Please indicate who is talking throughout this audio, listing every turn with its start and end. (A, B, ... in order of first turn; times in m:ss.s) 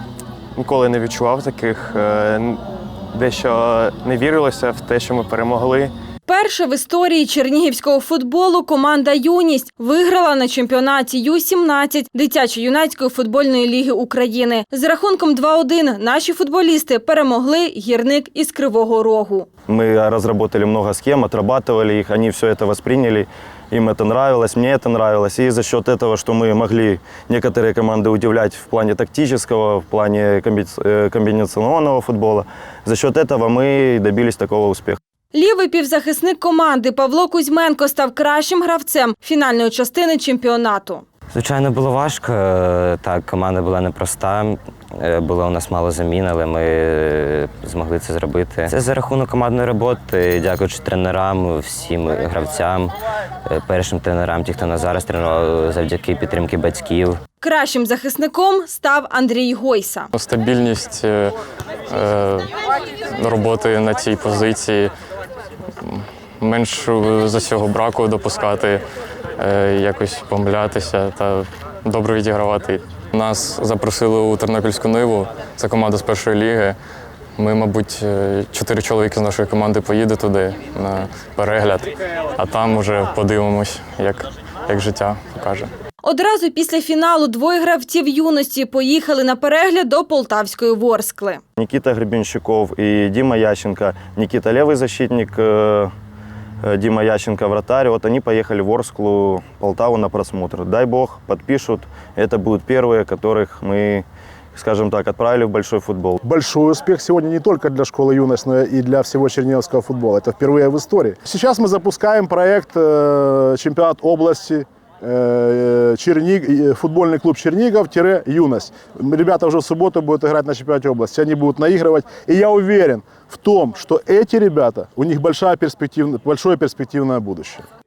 0:00.6-0:05.9 A
0:06.3-0:19.5 B
0:19.7-0:35.0 C
0:35.3-0:41.0 B
0:41.3-0:53.0 D
0:53.5-0:57.2 D
0:57.4-1:00.1 B
1:00.1-1:01.3 E
1:01.9-1:02.5 E
1:03.2-1:04.9 E
1:05.8-1:08.8 E
1:09.4-1:16.8 E
1:17.4-1:25.7 E
1:26.0-1:31.4 B
1:31.6-1:35.9 C
1:36.6-1:46.2 C
1:46.2-2:07.6 F